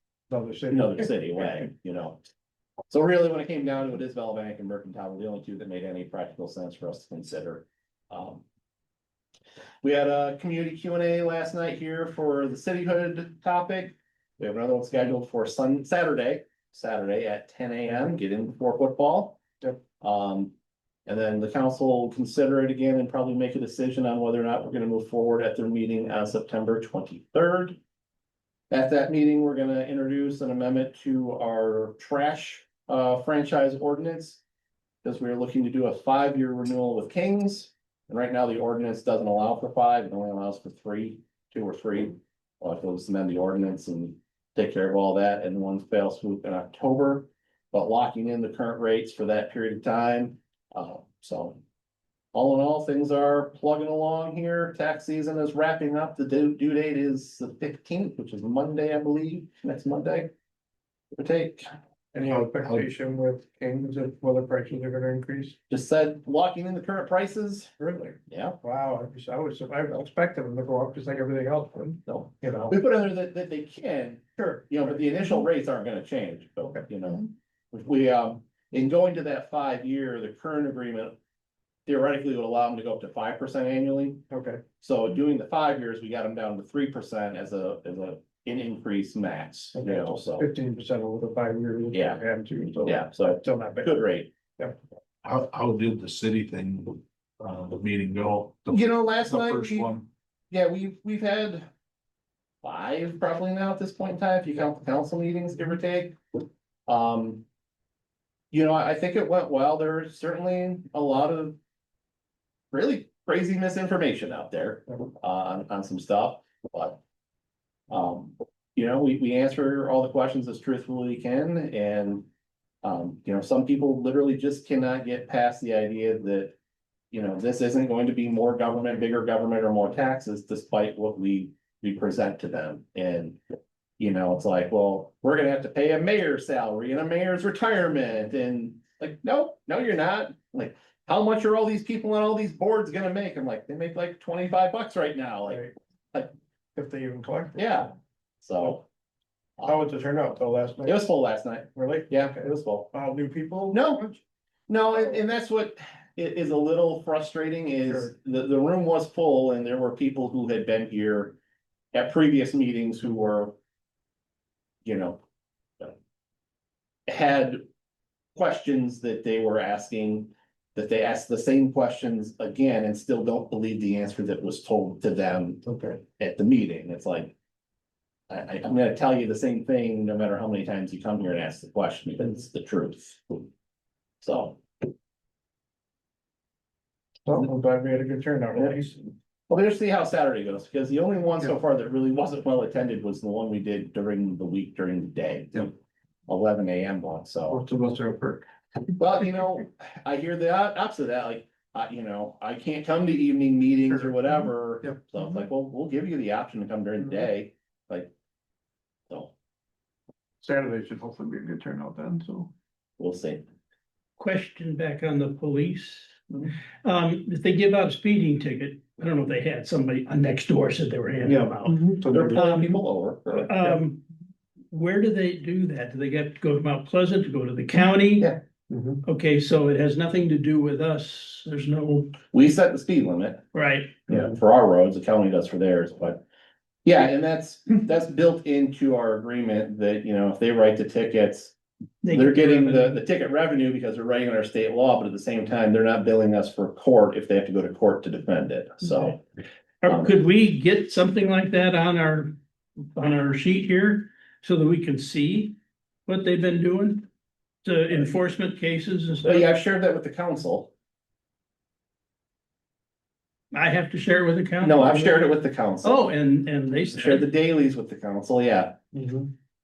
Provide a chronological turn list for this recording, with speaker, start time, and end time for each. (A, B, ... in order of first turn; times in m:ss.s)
0:00.3-0:01.0 A
0:00.7-0:02.2 B
0:02.9-0:08.4 B
0:09.8-0:19.4 B
0:20.0-0:20.5 B
0:21.1-0:27.8 B
0:28.7-0:34.4 B
0:35.0-0:51.6 B
0:52.3-1:00.3 B
1:01.1-1:01.7 B
1:02.1-1:05.6 A
1:05.7-1:07.7 B
1:07.8-1:12.8 A
1:08.3-1:08.6 B
1:12.1-1:21.2 B
1:14.4-1:14.7 A
1:21.9-1:24.2 B
1:24.3-1:24.6 A
1:24.8-1:30.5 B
1:29.8-1:34.0 A
1:31.9-1:32.2 B
1:32.8-1:34.3 B
1:35.2-1:40.1 C
1:38.7-1:39.9 B
1:40.5-1:41.7 B
1:42.6-1:46.2 B
1:46.9-1:47.4 B
1:48.5-1:51.6 B
1:52.7-1:57.0 B
1:57.9-2:02.3 B
2:02.8-2:06.6 B
2:07.1-2:13.4 B
2:14.0-2:25.6 B
2:26.8-2:27.6 A
2:27.6-2:28.8 B
2:29.6-2:31.0 A
2:30.8-2:32.9 B
2:31.7-2:34.2 A
2:33.7-2:34.0 B
2:34.7-2:41.4 B
2:41.9-2:43.6 B
2:44.8-2:45.2 B
2:47.1-2:47.6 B
2:48.4-2:57.3 B
2:55.6-2:56.0 A
2:58.3-3:03.5 B
3:04.2-3:04.6 B
3:07.3-3:09.1 A
3:09.5-3:15.8 B
3:16.3-3:17.6 B
3:17.5-3:18.4 A
3:19.0-3:28.1 B
3:23.9-3:24.2 A
3:30.4-3:32.5 A
3:33.0-3:33.4 B
3:34.2-3:36.2 D
3:36.8-3:42.8 D
3:41.2-3:42.4 A
3:42.1-3:43.5 B
3:43.3-3:44.0 D
3:44.7-3:48.3 D
3:48.7-3:49.0 A
3:49.0-3:52.2 D
3:52.3-3:53.4 B
3:53.5-3:54.0 D
3:54.1-3:56.2 B
3:56.8-4:01.6 B
4:02.0-4:03.0 D
4:02.1-4:09.2 B
4:09.8-4:12.4 D
4:09.9-4:10.1 B
4:12.9-4:17.1 D
4:17.6-4:19.5 D
4:19.2-4:20.7 B
4:23.5-4:25.3 D
4:24.6-4:26.1 B
4:25.8-4:27.3 D
4:26.9-4:28.8 B
4:28.9-4:29.3 A